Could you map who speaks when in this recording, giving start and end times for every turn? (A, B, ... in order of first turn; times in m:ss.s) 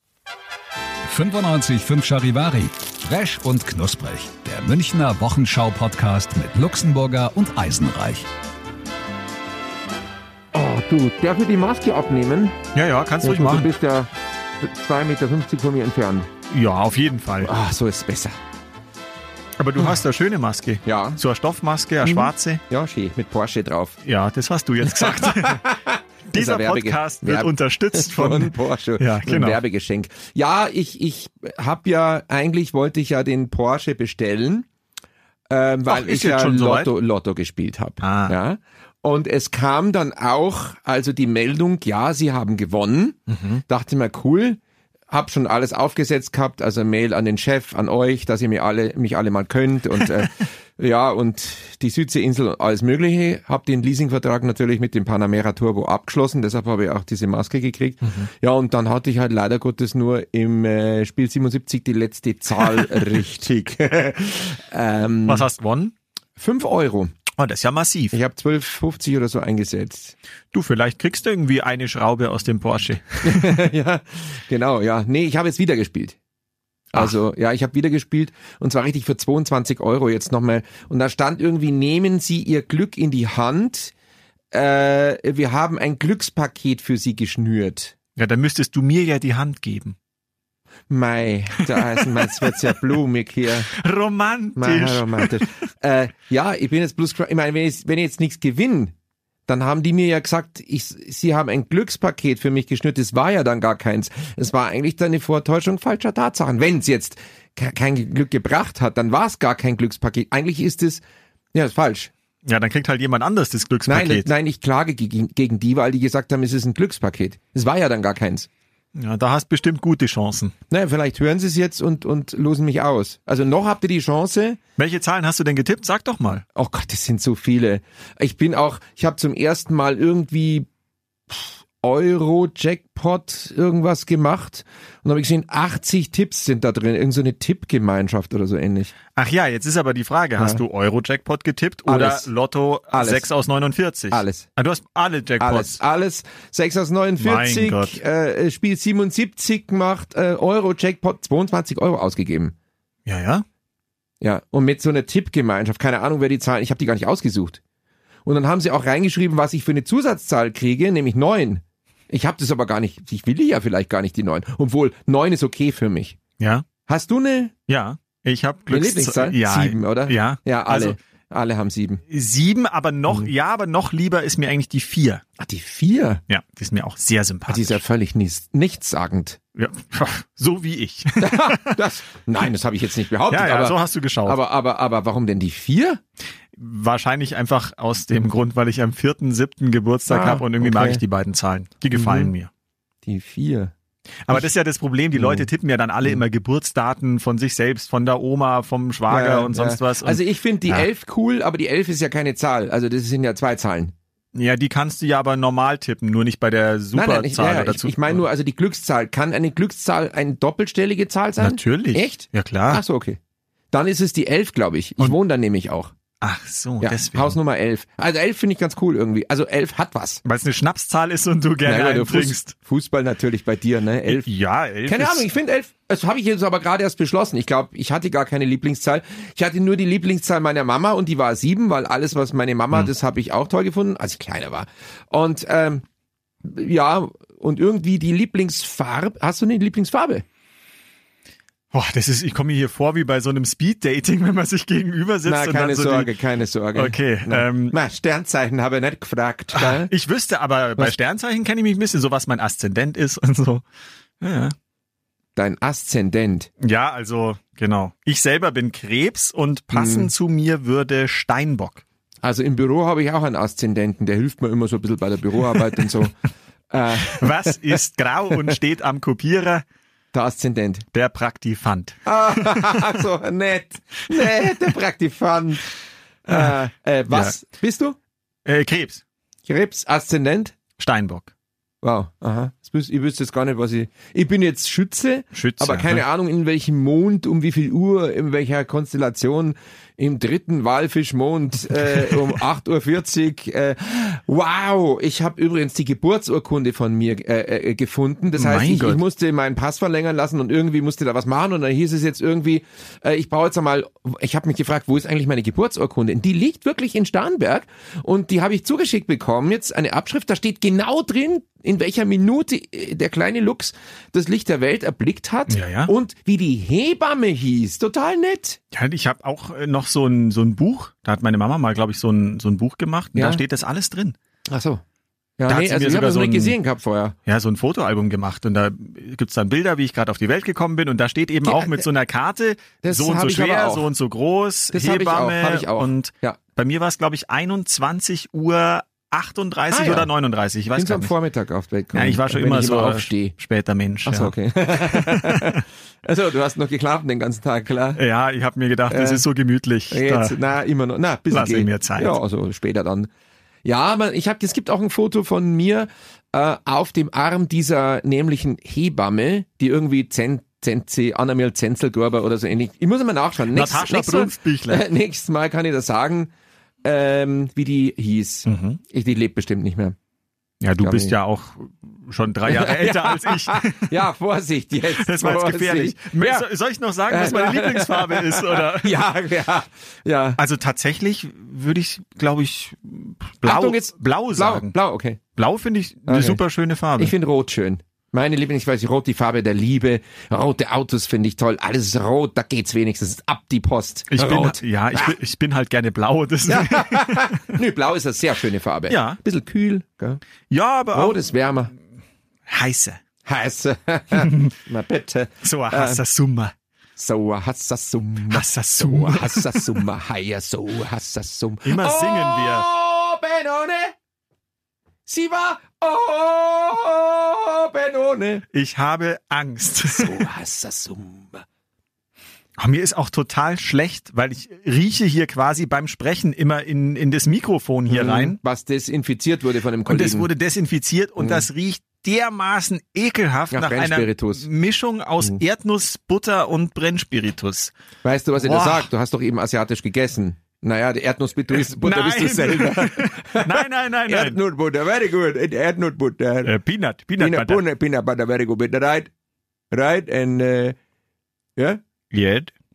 0:01.1-0:08.3 A
0:10.5-0:12.6 B
0:12.7-0:13.7 C
0:13.2-0:16.3 B
0:16.5-0:17.5 C
0:17.4-0:18.4 B
0:19.6-0:22.6 C
0:20.8-0:21.2 B
0:22.0-0:24.0 B
0:24.0-0:25.6 C
0:24.9-0:34.7 B
0:26.3-0:29.6 C
0:35.5-1:05.5 B
0:35.9-0:36.9 C
0:38.0-0:38.3 C
0:43.3-0:43.6 C
1:05.2-1:05.9 C
1:06.4-1:07.1 B
1:07.3-1:08.2 C
1:08.1-1:10.1 B
1:10.5-1:13.6 C
1:13.2-1:16.2 B
1:16.9-1:23.9 B
1:24.5-1:27.9 B
1:28.2-1:30.0 C
1:30.9-1:33.7 B
1:31.7-1:32.7 C
1:33.7-1:35.5 C
1:34.6-1:38.9 B
1:39.5-1:51.0 B
1:51.5-1:52.1 B
1:52.4-1:54.3 C
1:53.9-1:58.5 B
1:58.9-2:00.5 C
2:00.7-2:04.6 B
2:04.8-2:06.4 C
2:06.5-2:10.7 B
2:11.3-2:18.9 B
2:19.2-2:25.8 C
2:20.4-2:20.6 B
2:21.9-2:22.3 B
2:22.9-2:23.2 B
2:24.1-2:24.4 B
2:25.4-2:32.5 B
2:27.2-2:28.0 C
2:33.0-2:33.4 C
2:34.2-2:37.6 B
2:38.2-2:46.2 B
2:46.4-2:46.7 C
2:46.8-2:47.5 B
2:47.7-2:51.0 C
2:48.7-2:52.0 B
2:52.1-2:55.2 C
2:55.4-2:56.2 B
2:56.3-2:57.8 C
2:57.5-2:59.4 B
2:59.5-3:01.8 C
3:01.2-3:06.0 B
3:03.3-3:04.4 C
3:06.5-3:12.5 C
3:10.1-3:11.0 B
3:11.9-3:12.3 B
3:13.0-3:13.7 B
3:14.2-3:20.8 C
3:15.1-3:15.5 B
3:19.1-3:23.9 B
3:24.3-3:28.3 C
3:26.9-3:33.2 B
3:31.4-3:32.8 C
3:33.7-3:35.9 B
3:36.2-3:37.4 C
3:36.8-3:40.2 B
3:40.2-3:42.5 C
3:41.6-3:44.3 B
3:44.1-3:45.3 C
3:44.8-3:55.8 B
3:56.4-4:00.2 B
4:01.7-4:06.1 C
4:05.2-4:09.9 B
4:06.8-4:07.8 C
4:09.5-4:13.6 C
4:14.2-4:14.5 C
4:15.4-4:16.5 B
4:16.6-4:21.8 C
4:19.7-4:20.1 B
4:22.2-4:26.1 B
4:26.7-4:27.6 B
4:27.0-4:29.6 C
4:30.1-4:30.8 B
4:30.9-4:33.0 C
4:32.0-4:35.7 B
4:34.1-4:34.5 C
4:36.2-4:38.0 B
4:37.1-4:37.4 C
4:38.4-4:39.0 C
4:39.5-4:40.6 B
4:40.8-4:41.3 C
4:41.8-5:18.6 B
4:45.3-4:46.0 C
4:51.7-4:52.1 C
4:58.4-4:59.0 C
5:15.5-5:15.9 C
5:18.7-5:24.2 C
5:23.1-5:23.4 B
5:24.5-5:24.8 B
5:25.4-5:27.1 B
5:25.4-5:26.6 C
5:27.2-5:41.1 C
5:31.4-5:31.8 B
5:32.8-5:33.9 B
5:34.7-5:36.4 B
5:39.7-5:40.1 B
5:40.7-5:43.3 B
5:41.9-5:45.6 C
5:44.0-5:48.0 B
5:48.0-5:50.4 C
5:48.9-5:49.2 B
5:49.9-5:53.1 B
5:51.3-5:52.2 C
5:53.6-6:06.3 B
6:03.5-6:04.8 C
6:06.8-6:10.0 B
6:08.4-6:08.8 C
6:10.6-6:14.0 C
6:10.8-6:11.1 B
6:12.4-6:16.4 B
6:15.0-6:19.0 C
6:17.1-6:20.4 B
6:20.4-6:24.7 C
6:23.4-6:25.2 B
6:25.3-6:27.1 C
6:26.1-6:26.4 B
6:27.0-6:35.1 B
6:34.1-6:37.5 C
6:36.4-6:40.2 B
6:38.9-6:39.2 C
6:40.5-6:41.2 C
6:40.9-6:41.7 B
6:42.4-6:43.0 C
6:43.2-6:46.0 B
6:44.1-6:44.5 C
6:45.4-6:46.5 C
6:47.0-6:53.9 B
6:48.3-6:49.8 C
6:51.6-6:52.7 C
6:55.0-6:58.4 B
6:58.5-7:00.2 C
6:59.9-7:01.4 B
7:02.6-7:08.4 C
7:07.9-7:10.3 B
7:09.9-7:17.7 C
7:11.2-7:11.4 B
7:13.5-7:14.4 B
7:18.0-7:26.5 B
7:18.4-7:18.9 C
7:21.5-7:24.4 C
7:26.4-7:27.6 C
7:27.2-7:29.1 B
7:29.7-7:30.8 B
7:31.6-7:31.8 B
7:32.1-7:32.5 C